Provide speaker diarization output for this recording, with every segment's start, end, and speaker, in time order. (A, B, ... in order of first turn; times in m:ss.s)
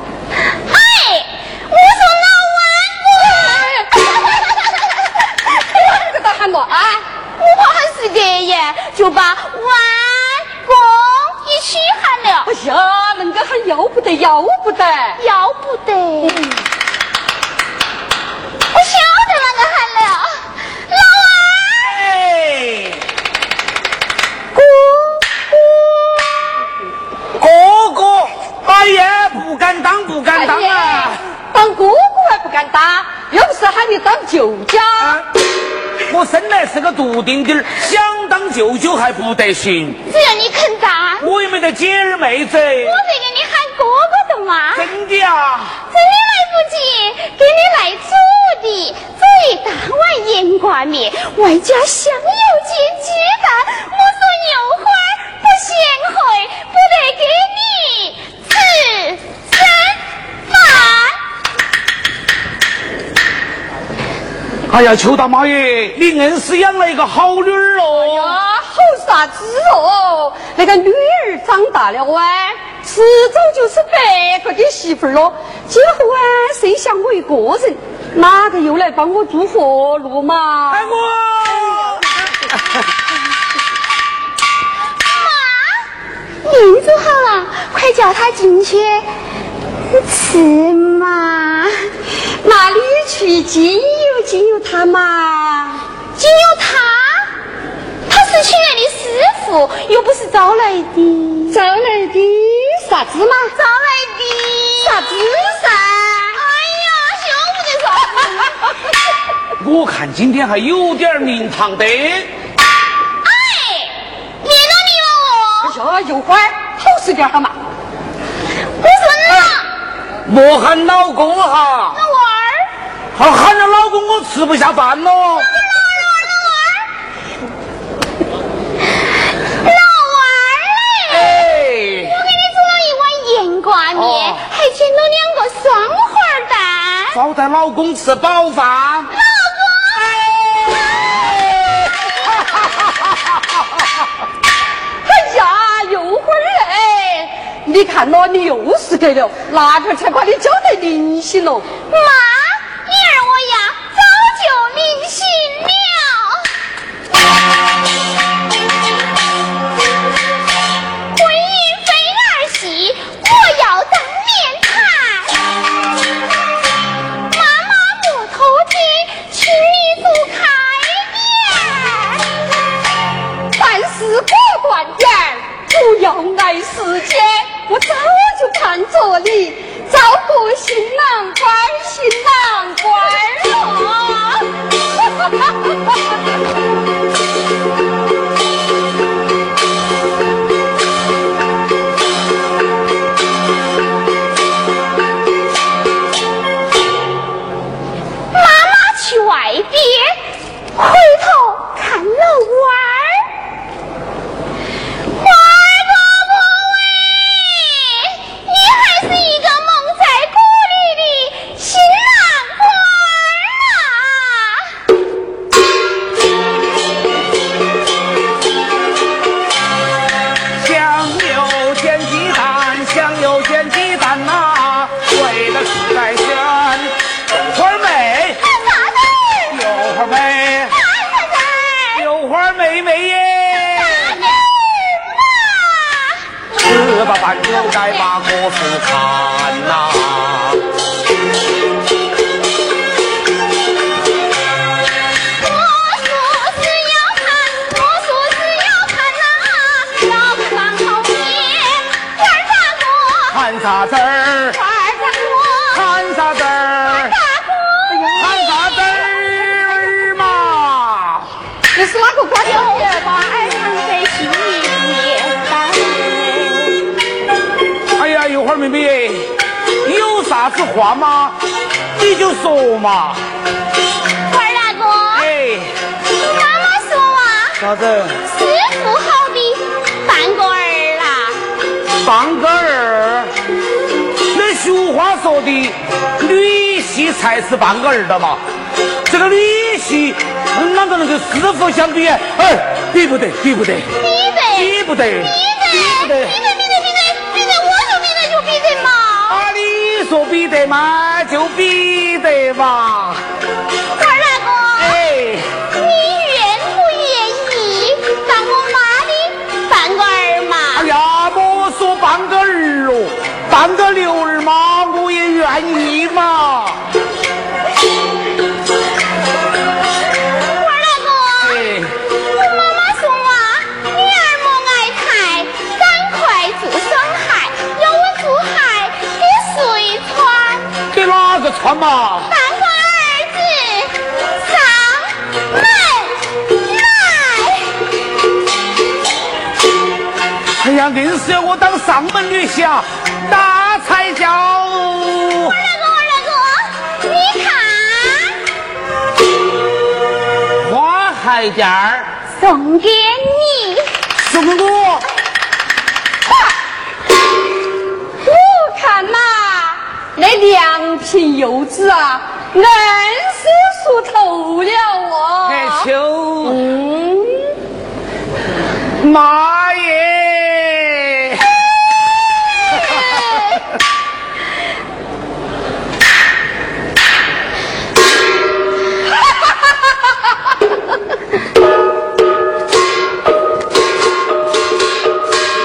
0:00.4-0:05.1 A
0:03.4-0:03.8 B
0:05.5-0:07.0 B
0:07.4-0:12.5 A
0:12.4-0:15.2 B
0:15.2-0:16.6 A
0:18.7-0:22.0 A
0:21.9-0:23.0 C
0:24.5-0:25.2 B
0:27.4-0:31.2 C
0:30.3-0:35.2 B
0:36.0-0:40.0 C
0:40.1-0:41.3 A
0:41.2-0:43.0 C
0:42.8-0:44.9 A
0:44.8-0:45.8 C
0:45.9-1:01.2 A
1:04.7-1:08.4 C
1:08.0-1:21.0 B
1:20.7-1:22.1 C
1:25.0-1:25.9 A
1:26.4-1:29.1 A
1:29.9-1:31.9 A
1:32.4-1:35.8 B
1:36.2-1:37.4 A
1:38.1-1:41.6 A
1:41.5-1:43.5 B
1:43.5-1:45.1 A
1:44.8-1:46.4 B
1:46.3-1:48.8 A
1:49.6-1:52.3 C
1:53.2-1:55.8 A
1:55.6-1:57.6 B
1:58.6-1:59.7 A
2:00.2-2:02.0 C
2:01.9-2:02.7 A
2:03.1-2:05.5 C
2:05.5-2:06.9 A
2:09.4-2:11.5 A
2:11.1-2:12.1 C
2:12.0-2:17.2 A
2:13.9-2:14.4 C
2:17.1-2:19.1 C
2:19.1-2:21.9 A
2:25.0-2:31.7 B
2:31.9-2:36.5 A
2:41.1-2:45.5 A
2:47.2-2:52.4 A
2:53.5-3:03.6 B
3:03.4-3:04.4 A
3:18.3-3:20.2 A
3:20.7-3:23.3 A
3:25.1-3:34.8 A
3:40.5-3:48.4 C
3:48.4-3:49.6 A
3:49.5-3:50.8 C
3:50.7-3:52.1 A
3:51.9-3:54.2 C
3:53.7-3:56.2 A
3:56.5-4:00.7 C
3:57.6-3:58.1 A
4:05.4-4:13.4 A
4:13.3-4:14.6 C
4:14.5-4:15.9 A
4:15.7-4:17.1 C
4:16.8-4:19.2 A
4:18.1-4:21.3 C
4:21.8-4:23.2 B
4:22.4-4:26.9 A
4:28.0-4:31.4 C
4:32.0-4:33.2 C
4:34.3-4:35.3 A
4:35.1-4:35.8 C
4:36.2-4:37.6 A
4:37.6-4:38.2 C
4:38.2-4:41.4 A
4:42.0-4:43.3 C
4:44.3-4:48.4 C
4:49.1-4:54.0 C
4:54.0-4:59.5 A
4:54.5-4:56.4 C
4:59.3-5:03.2 C
5:04.0-5:05.0 A
5:04.8-5:05.5 C
5:05.7-5:10.9 A
5:10.7-5:16.9 C
5:20.5-5:21.7 A
5:21.4-5:21.9 C
5:22.3-5:30.8 A
5:30.9-5:32.3 C
5:32.2-5:37.8 A
5:40.6-5:45.6 C
5:45.4-5:48.4 A
5:50.6-5:52.1 C
5:52.3-5:53.9 A
5:54.1-5:55.0 C
5:58.2-6:05.9 B
6:05.4-6:06.6 C
6:06.5-6:07.5 B
6:09.0-6:11.5 C
6:12.9-6:13.6 A